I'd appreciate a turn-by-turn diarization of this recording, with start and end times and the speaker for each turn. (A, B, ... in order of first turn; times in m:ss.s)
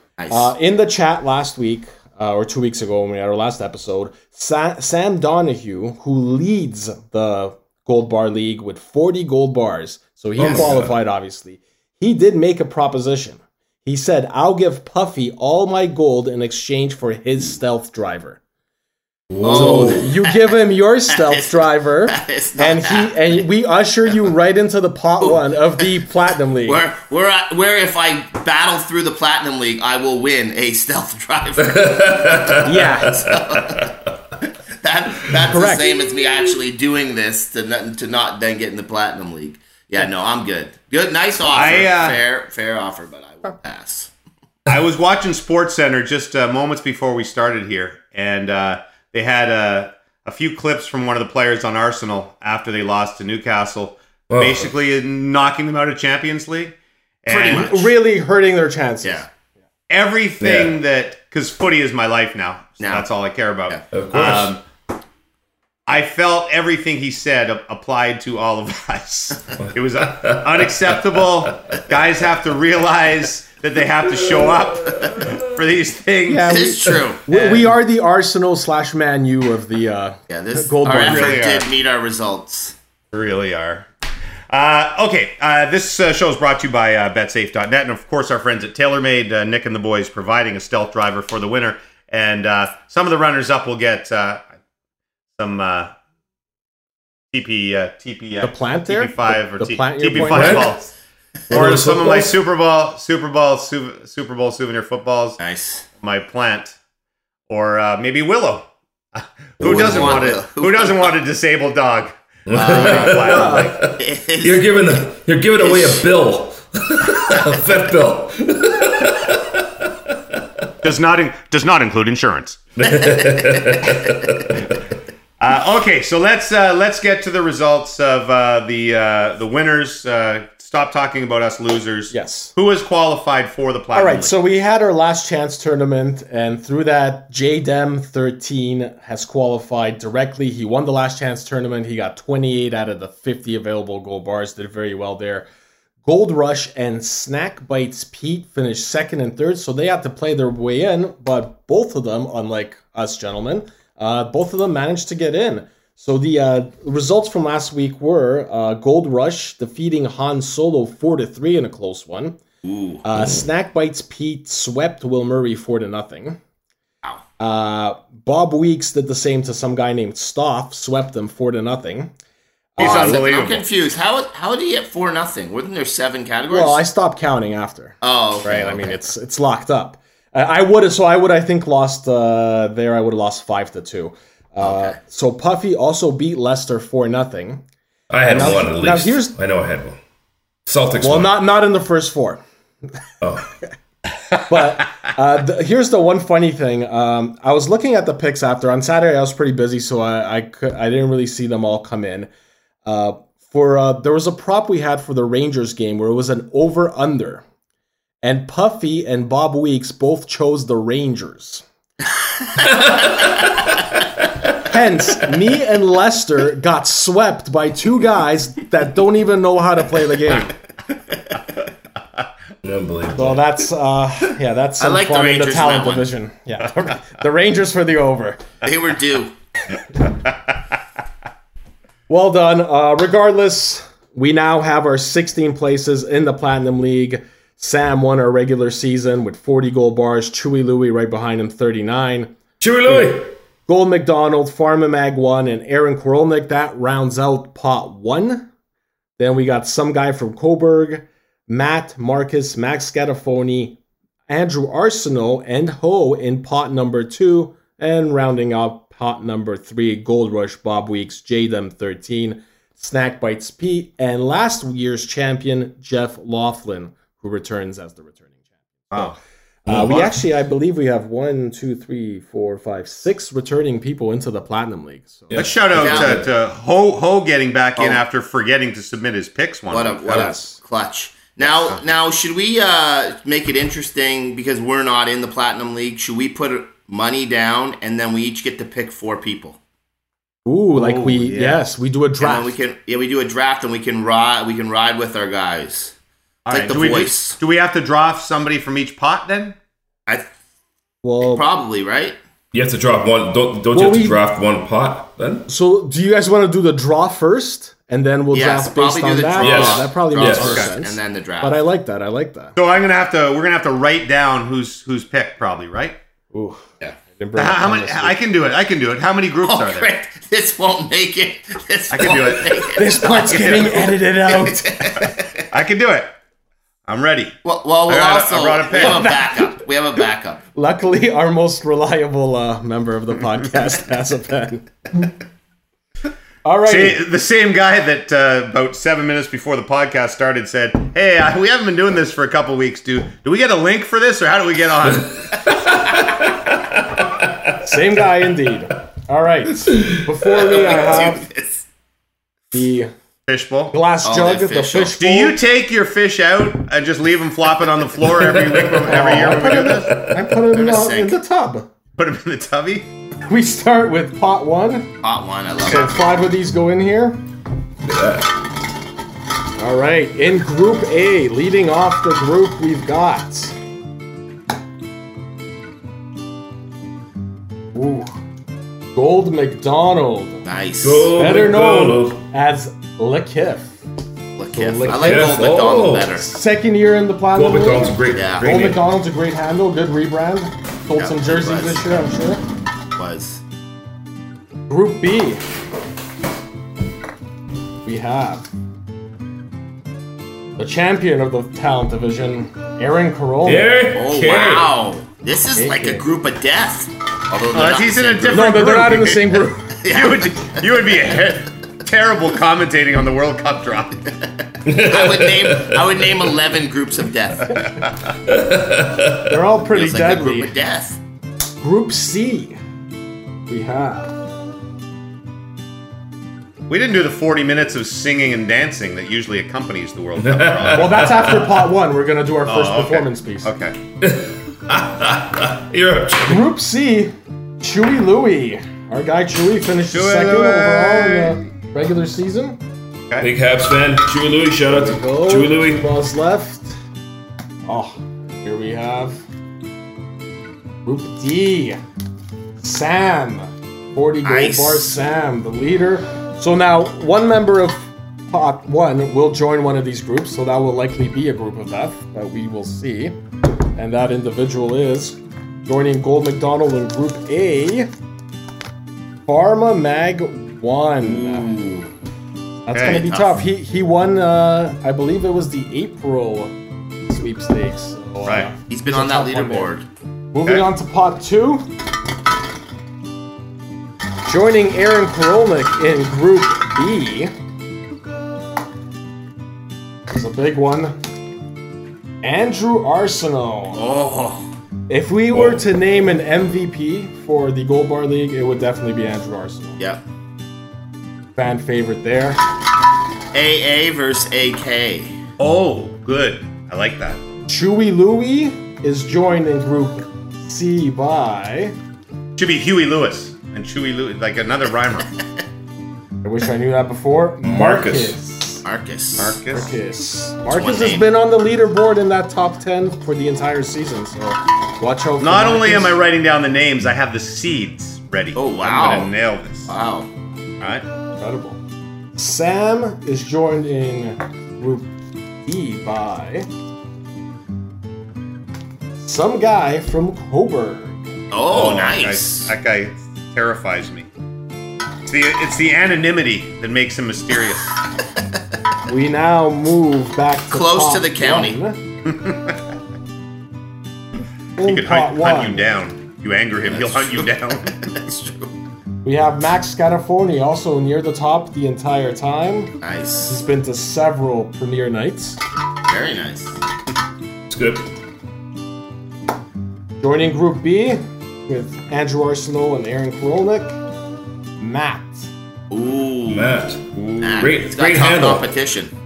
0:00.2-0:00.5 A
0:00.3-0:18.4 B
0:10.4-0:11.0 C
0:10.4-0:10.7 A
0:19.3-0:20.1 C
0:19.4-0:20.5 A
0:19.5-0:26.8 B
0:21.1-0:23.1 A
0:25.2-0:25.8 A
0:26.7-0:33.9 A
0:31.6-0:34.0 C
0:32.6-0:33.2 B
0:34.8-0:44.1 A
0:35.4-0:35.8 B
0:41.4-0:42.2 D
0:44.7-0:57.7 D
0:54.3-0:54.7 C
0:57.3-0:57.9 A
0:57.5-0:59.3 B
0:59.9-1:04.6 D
1:00.4-1:00.8 C
1:02.8-1:03.1 A
1:03.9-1:04.6 C
1:05.9-1:16.6 D
1:09.7-1:11.8 C
1:16.3-1:21.5 B
1:16.5-1:17.6 A
1:20.3-1:22.8 A
1:21.0-1:21.7 D
1:23.1-1:23.9 D
1:24.5-1:34.5 D
1:35.4-1:35.9 D
1:37.3-1:40.9 D
1:38.4-1:40.8 B
1:40.2-1:40.7 C
1:41.5-1:42.3 C
1:41.5-1:45.4 D
1:41.6-1:42.3 B
1:45.4-1:45.8 A
1:46.0-1:46.8 D
1:47.5-1:53.9 D
1:49.6-1:50.3 C
1:49.6-1:51.1 A
1:52.5-2:00.6 C
1:52.5-1:54.8 A
1:53.3-1:53.7 B
1:55.6-1:56.1 A
2:00.8-2:02.6 D
2:02.8-2:04.8 C
2:03.0-2:03.6 A
2:05.4-2:14.4 D
2:12.1-2:12.5 B
2:13.9-2:25.5 B
2:26.0-2:42.4 B
2:42.6-2:43.0 A
2:43.0-2:46.4 B
2:47.4-2:52.1 B
2:52.8-2:53.2 B
2:52.8-2:53.6 D
2:52.8-2:56.8 A
2:56.5-3:07.6 B
2:58.0-2:59.0 A
3:04.6-3:05.0 A
3:08.1-3:10.0 C
3:08.2-3:09.4 B
3:10.7-3:11.3 C
3:11.0-3:12.4 B
3:13.2-3:13.5 C
3:14.5-3:22.3 B
3:22.8-3:27.4 B
3:28.2-3:31.6 B
3:32.6-3:33.8 C
3:34.6-3:40.6 B
3:42.6-3:43.6 C
3:43.1-3:48.4 B
3:44.8-3:46.1 A
3:48.6-3:49.3 A
3:52.1-4:02.3 B
4:02.6-4:03.3 C
4:02.9-4:08.5 B
4:09.2-4:28.2 B
4:29.6-4:35.6 B
4:29.7-4:30.1 C
4:35.3-4:36.3 C
4:35.4-4:40.4 D
4:35.8-4:36.2 A
4:37.8-4:38.0 A
4:39.7-4:49.6 A
4:40.1-4:40.6 B
4:41.4-4:41.8 D
4:50.4-4:52.6 B
4:50.7-4:51.6 D
4:52.2-4:55.9 A
4:56.5-4:59.6 D
4:56.5-4:57.4 A
5:01.0-5:01.4 B
5:01.2-5:02.2 A
5:02.5-5:05.5 C
5:03.7-5:04.2 B
5:05.5-5:12.6 B
5:08.3-5:11.6 A
5:09.4-5:10.6 C
5:12.6-5:16.0 D
5:16.3-5:18.2 B
5:17.4-5:19.9 D
5:19.4-5:25.2 A
5:21.9-5:23.9 D
5:22.7-5:25.1 B
5:25.5-5:26.1 D
5:26.9-5:27.4 D
5:27.4-5:30.4 A
5:27.9-5:29.2 D
5:30.6-5:34.7 B
5:36.4-5:37.0 B
5:36.7-5:45.5 D
5:45.7-5:46.2 C
5:47.5-5:51.3 B
5:50.3-5:51.6 A
5:52.5-5:52.9 B
5:53.3-5:53.8 D
5:53.7-5:55.4 B
5:54.0-5:55.0 A
5:55.0-6:00.0 D
5:58.1-6:00.4 C
5:58.8-6:01.7 B
6:00.5-6:01.2 A
6:02.0-6:02.9 D
6:03.3-6:04.9 B
6:05.0-6:06.0 A
6:05.6-6:07.2 B
6:07.8-6:08.4 C
6:09.6-6:13.6 B
6:17.7-6:18.1 B
6:18.9-6:20.4 B
6:20.4-6:21.1 A
6:20.8-6:22.2 C
6:21.1-6:23.8 B
6:24.4-6:26.3 A
6:24.5-6:25.4 B
6:24.9-6:26.1 C
6:26.2-6:32.4 B
6:27.3-6:28.8 C
6:28.1-6:28.7 A
6:31.0-6:31.8 A
6:33.0-6:33.4 A
6:34.7-6:35.4 B
6:37.8-6:38.5 B
6:40.6-6:43.7 B
6:43.4-6:44.7 C
6:43.9-6:48.7 A
6:45.6-6:46.0 B
6:47.5-6:54.0 D
6:48.3-6:49.8 B
6:49.8-6:50.6 A
6:54.6-6:56.1 C
6:54.7-6:57.6 A
6:57.6-6:57.9 D
6:58.3-6:59.4 C
6:59.3-7:00.5 B
6:59.7-7:01.0 A
7:01.6-7:02.6 B
7:03.5-7:04.2 B
7:06.7-7:11.3 D
7:10.2-7:11.6 C
7:10.7-7:13.5 B
7:12.5-7:13.8 D
7:14.0-7:16.5 C
7:16.2-7:22.6 B
7:19.9-7:21.4 D
7:23.2-7:25.9 C
7:24.7-7:26.8 B
7:27.7-7:29.2 B
7:30.8-7:31.8 B
7:32.6-7:43.2 B
7:34.2-7:34.9 A
7:43.8-7:47.9 B
7:49.3-7:51.5 B
7:51.0-7:51.9 A
7:52.6-7:56.5 B
7:52.7-7:53.1 D
7:52.8-7:53.4 A
7:57.1-7:59.7 B
7:58.7-7:59.8 A
8:00.3-8:01.7 B
8:04.3-8:07.3 B
8:10.1-8:11.0 B
8:12.2-8:13.8 B
8:13.8-8:14.5 A
8:14.9-8:19.8 B
8:15.3-8:15.6 C
8:21.4-8:22.4 B
8:23.3-8:25.2 A
8:25.4-8:27.2 D
8:27.5-8:31.8 B
8:32.4-8:35.2 D
8:36.2-8:38.6 B
8:37.4-8:38.2 C
8:38.6-8:39.4 A
8:39.2-8:39.7 D
8:39.5-8:46.0 B
8:40.5-8:41.0 A
8:45.2-8:49.7 D
8:48.4-8:49.1 A
8:49.7-8:50.1 A
8:51.2-8:51.6 B
8:52.2-8:54.9 B
8:55.4-8:56.5 B
8:59.0-9:01.1 B
9:01.3-9:02.5 A
9:01.5-9:04.1 D
9:05.1-9:07.8 D
9:08.9-9:11.8 B
9:10.5-9:11.6 A
9:12.1-9:12.6 D
9:14.6-9:15.7 B
9:14.6-9:17.9 D
9:16.7-9:17.3 A
9:17.9-9:18.5 A
9:19.0-9:22.7 B
9:22.8-9:23.4 A
9:23.3-9:25.4 B
9:25.9-9:26.6 A
9:27.5-9:27.9 C
9:30.0-9:33.8 B
9:34.6-9:35.3 B
9:35.7-9:36.6 A
9:36.3-9:38.5 C
9:36.9-9:37.5 D
9:37.2-9:38.9 A